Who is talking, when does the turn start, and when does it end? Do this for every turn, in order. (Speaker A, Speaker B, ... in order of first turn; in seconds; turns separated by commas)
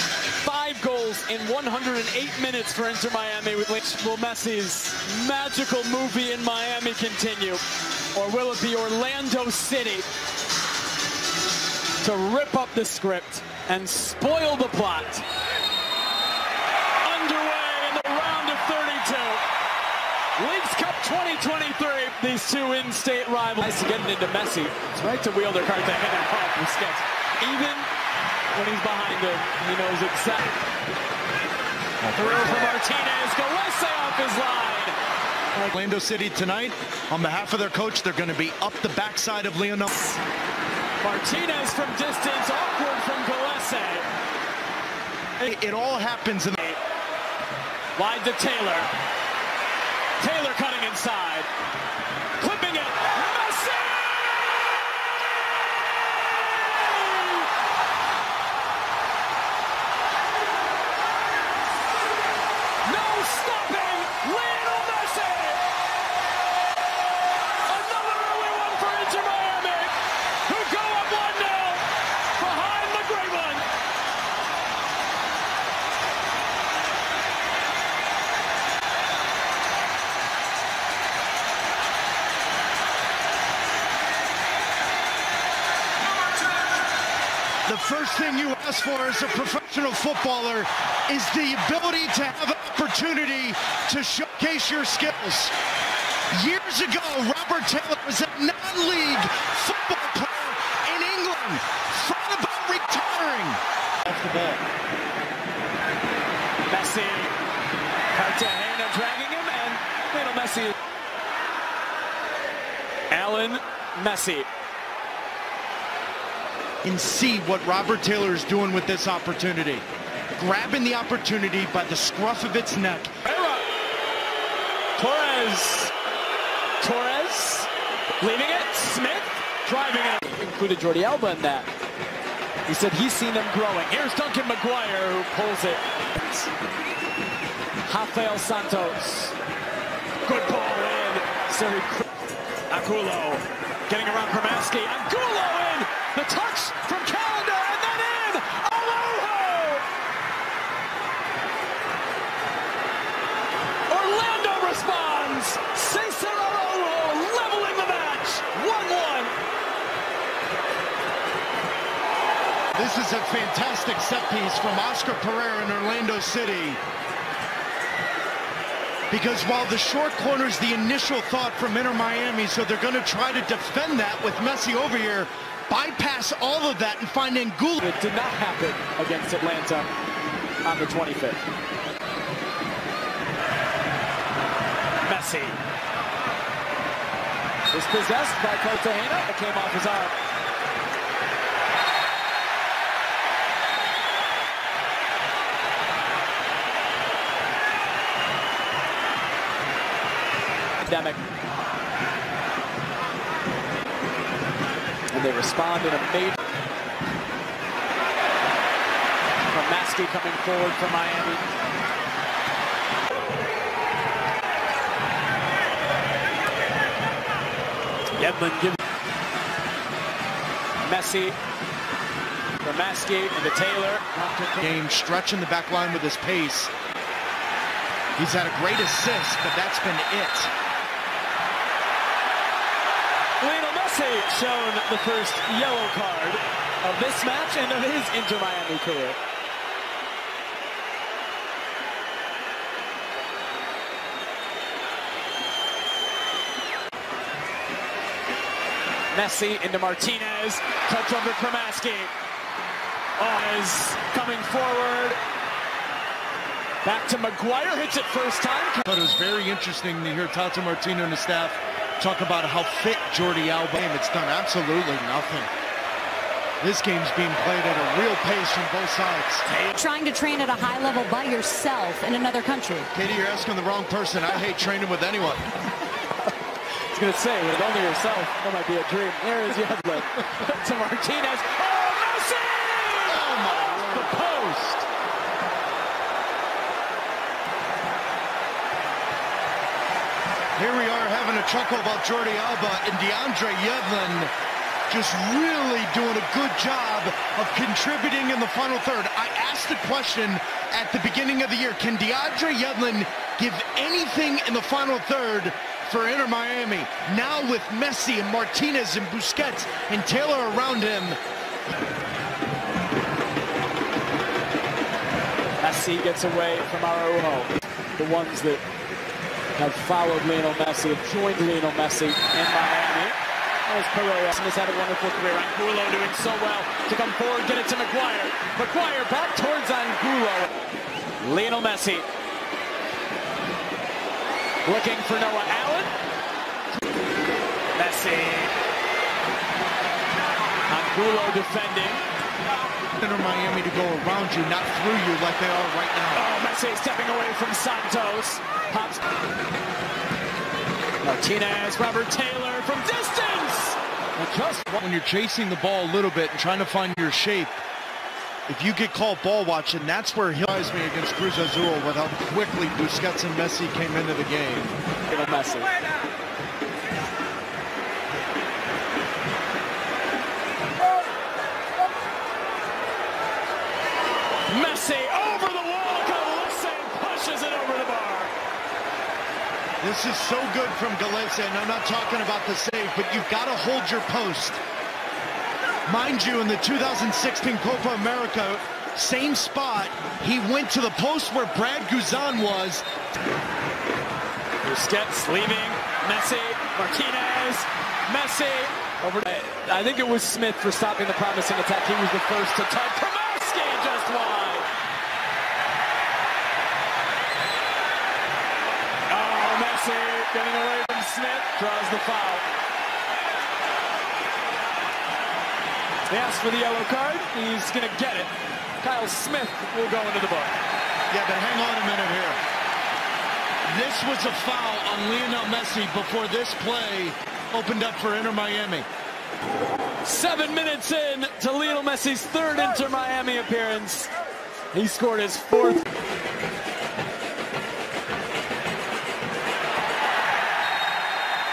Speaker A: 0.3-7.6, Speaker A: 8.1-10.1, Speaker A: 12.0-15.2, Speaker A: 17.0-19.4, Speaker A: 20.4-27.9, Speaker A: 28.5-30.6, Speaker B: 32.0-32.8, Speaker A: 32.1-35.0, Speaker B: 35.6-39.9, Speaker A: 41.0-44.1, Speaker B: 45.4-46.6, Speaker A: 48.0-48.9, Speaker A: 50.2-51.5, Speaker A: 52.4-54.1, Speaker A: 56.6-57.5, Speaker A: 62.8-65.6, Speaker A: 67.6-73.6, Speaker B: 87.7-95.5, Speaker B: 96.3-104.6, Speaker A: 106.7-107.3, Speaker A: 108.1-110.8, Speaker A: 113.1-114.5, Speaker B: 116.8-119.8, Speaker B: 120.3-123.1, Speaker A: 123.2-123.7, Speaker A: 125.0-125.9, Speaker A: 126.8-131.7, Speaker A: 132.7-136.5, Speaker A: 137.8-139.3, Speaker A: 140.2-142.1, Speaker A: 142.7-149.8, Speaker A: 153.9-159.3, Speaker B: 162.7-166.8, Speaker B: 169.1-177.8, Speaker A: 177.8-179.9, Speaker A: 180.6-181.4, Speaker A: 185.0-185.6, Speaker A: 187.7-190.1, Speaker A: 200.8-201.2, Speaker A: 205.1-206.4, Speaker A: 209.4-211.5, Speaker A: 218.2-218.8, Speaker A: 220.8-221.4, Speaker A: 222.6-224.7, Speaker B: 224.6-226.7, Speaker B: 228.2-230.5, Speaker A: 233.4-239.2, Speaker A: 249.1-252.1, Speaker A: 253.2-255.2, Speaker A: 256.8-258.8, Speaker B: 258.9-265.5, Speaker B: 266.6-269.4, Speaker C: 269.7-272.9, Speaker B: 272.9-275.5, Speaker A: 276.9-284.9, Speaker B: 283.1-284.1, Speaker B: 290.5-294.3, Speaker B: 294.9-311.2, Speaker A: 315.6-318.6, Speaker A: 319.6-330.5, Speaker A: 331.2-332.1, Speaker A: 334.6-335.9, Speaker A: 337.7-338.5, Speaker A: 340.7-342.0, Speaker B: 343.0-346.2, Speaker A: 346.1-349.0, Speaker A: 351.0-354.8, Speaker B: 354.8-357.6, Speaker B: 358.5-364.8, Speaker A: 365.1-365.8, Speaker A: 374.5-378.3, Speaker B: 379.8-384.6, Speaker B: 385.9-392.8, Speaker A: 394.6-404.7, Speaker A: 409.1-412.4, Speaker A: 416.1-420.6, Speaker B: 421.1-422.4, Speaker B: 423.7-428.9, Speaker A: 430.0-434.1, Speaker A: 434.7-435.9